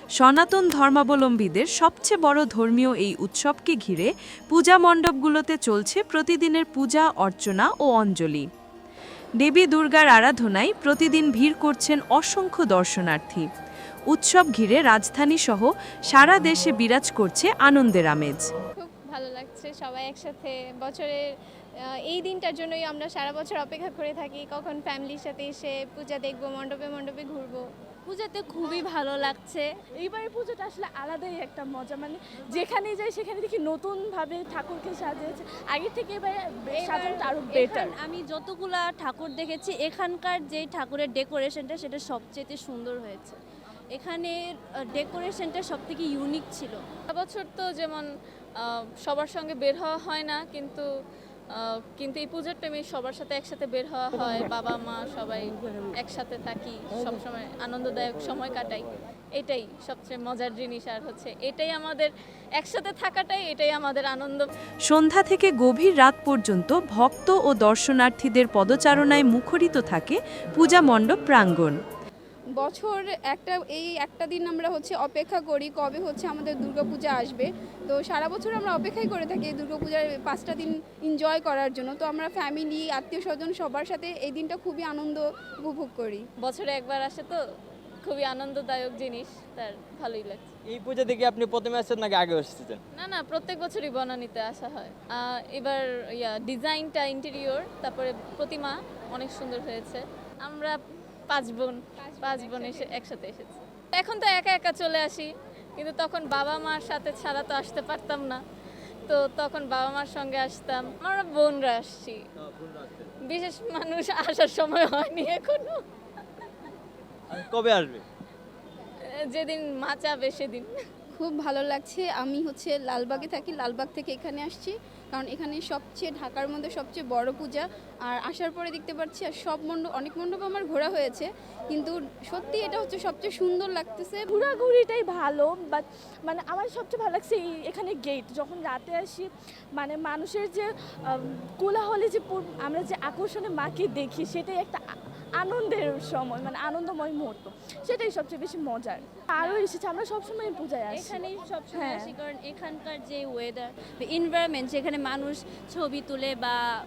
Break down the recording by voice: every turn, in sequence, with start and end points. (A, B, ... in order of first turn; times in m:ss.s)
0:00.2-0:08.5 A
0:09.4-0:13.5 A
0:14.1-0:18.5 A
0:18.8-0:21.3 B
0:21.9-0:27.6 B
0:28.1-0:29.7 C
0:29.9-0:37.9 D
0:36.7-0:43.4 C
0:43.9-0:46.8 C
0:47.1-0:48.0 E
0:48.6-0:50.8 E
0:51.5-1:04.5 E
1:04.9-1:11.8 A
1:12.6-1:26.2 F
1:26.4-1:27.4 E
1:28.0-1:30.5 E
1:30.7-1:32.8 G
1:32.9-1:40.8 E
1:41.3-1:48.4 E
1:42.0-1:43.0 B
1:49.1-1:52.2 E
1:52.4-1:53.1 G
1:53.3-1:55.8 E
1:57.3-1:58.0 G
1:59.3-2:00.7 E
2:01.1-2:14.2 F
2:14.3-2:32.2 D
2:29.4-2:29.8 C
2:30.9-2:36.6 C